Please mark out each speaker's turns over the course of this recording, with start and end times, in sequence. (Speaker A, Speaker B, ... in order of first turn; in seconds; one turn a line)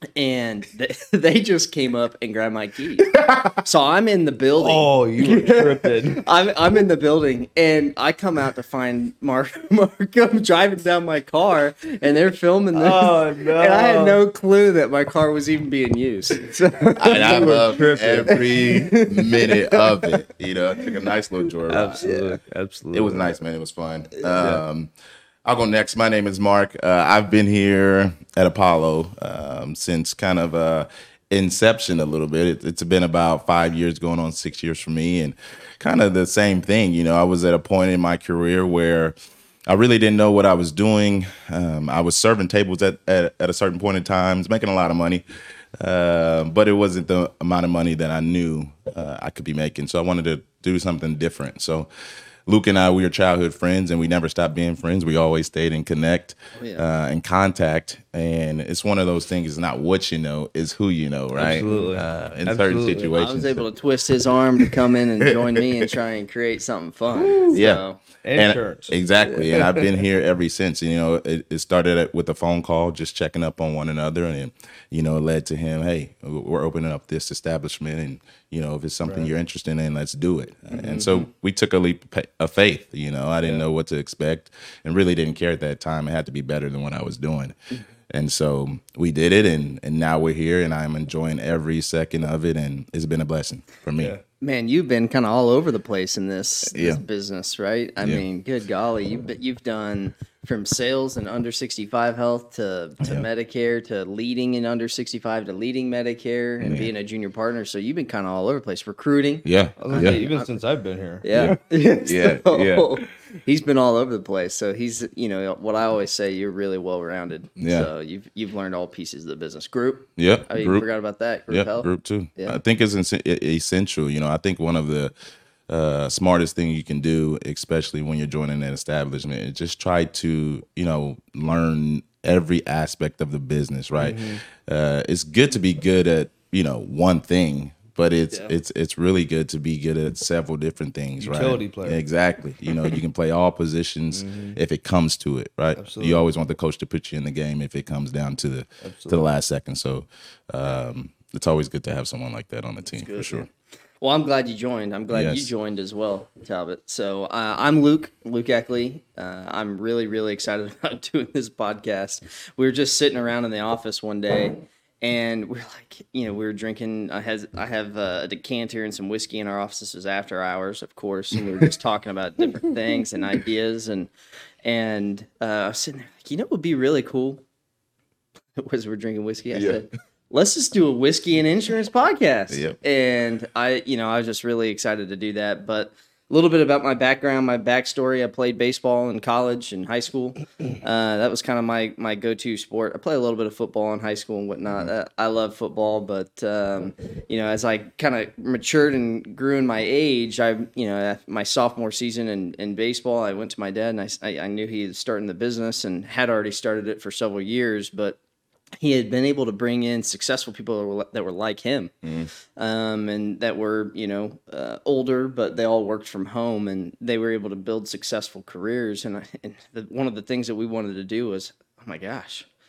Speaker A: 0.1-20.2
Speaker B: 3.1-3.5
Speaker C: 4.6-6.2
Speaker C: 12.7-14.2
Speaker B: 16.9-22.0
Speaker C: 17.1-18.4
Speaker C: 21.7-23.3
Speaker A: 22.0-22.4
Speaker B: 22.9-24.9
Speaker A: 24.2-24.5
Speaker B: 25.4-39.1
Speaker B: 39.7-45.2
Speaker B: 45.8-51.9
Speaker B: 52.5-63.6
Speaker A: 56.6-56.8
Speaker C: 61.4-63.1
Speaker A: 63.1-68.0
Speaker B: 64.6-65.9
Speaker C: 67.2-67.5
Speaker B: 67.4-67.8
Speaker C: 68.2-69.0
Speaker B: 68.3-87.5
Speaker C: 79.0-79.3
Speaker A: 80.7-81.2
Speaker B: 88.1-94.2
Speaker A: 94.4-110.5
Speaker B: 96.7-97.0
Speaker B: 103.0-103.2
Speaker B: 106.6-106.9
Speaker B: 109.4-110.2
Speaker C: 109.8-111.2
Speaker A: 111.2-122.6
Speaker B: 111.3-113.0
Speaker B: 117.6-117.9
Speaker B: 120.2-120.8
Speaker B: 121.5-125.1
Speaker B: 125.7-153.5
Speaker C: 134.0-134.4
Speaker C: 141.2-142.0
Speaker C: 144.1-144.6
Speaker C: 145.8-146.2
Speaker C: 148.8-149.3
Speaker A: 152.9-153.5
Speaker A: 154.0-174.1
Speaker B: 155.1-155.5
Speaker A: 174.6-177.4
Speaker A: 178.6-208.2
Speaker B: 179.5-179.8
Speaker B: 182.5-182.8
Speaker A: 208.8-211.9
Speaker B: 212.0-212.3
Speaker A: 212.6-222.4